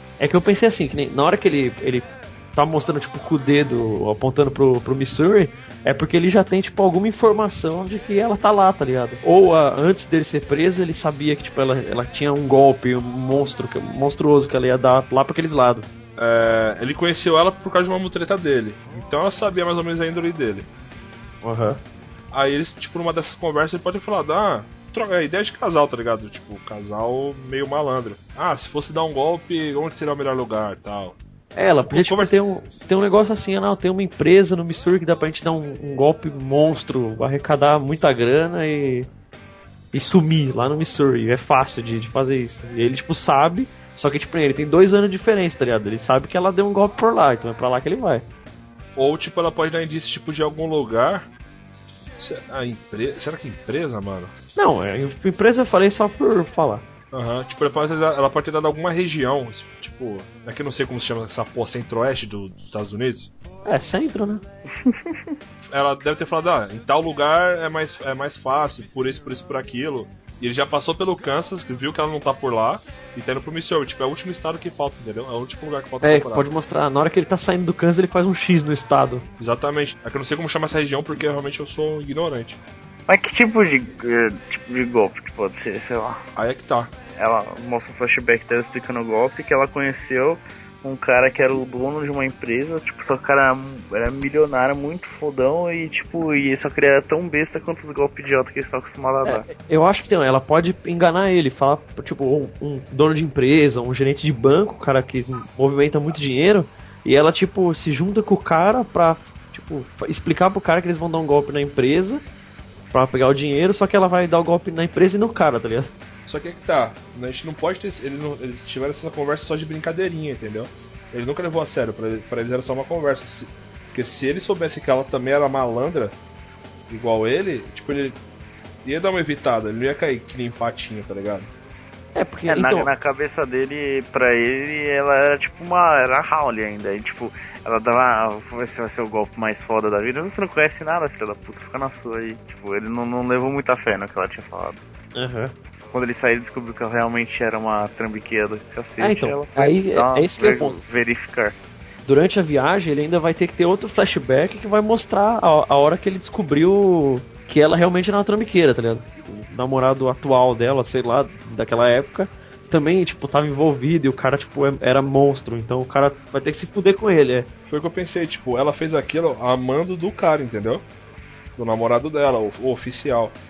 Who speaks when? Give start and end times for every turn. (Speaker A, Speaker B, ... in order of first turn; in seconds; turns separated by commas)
Speaker A: 0.2-15.9, Speaker B: 16.2-20.7, Speaker A: 21.4-21.8, Speaker B: 22.3-31.2, Speaker A: 31.6-39.1, Speaker B: 31.9-32.3, Speaker A: 39.9-48.2, Speaker B: 49.0-51.3, Speaker B: 52.2-54.3, Speaker A: 54.6-56.8, Speaker B: 57.1-63.3, Speaker A: 63.6-64.4, Speaker C: 64.8-65.2, Speaker B: 65.7-76.5, Speaker A: 76.0-79.3, Speaker B: 79.4-82.6, Speaker C: 83.1-86.2, Speaker B: 86.4-86.9, Speaker C: 87.2-99.5, Speaker A: 99.2-112.2, Speaker A: 112.9-115.9, Speaker B: 116.3-126.2, Speaker B: 126.9-128.2, Speaker B: 128.8-131.5, Speaker A: 132.2-132.9, Speaker C: 132.5-144.8, Speaker A: 145.2-145.5, Speaker C: 145.9-151.6, Speaker A: 149.0-150.8, Speaker A: 152.1-167.5, Speaker B: 167.7-170.8, Speaker B: 171.6-173.3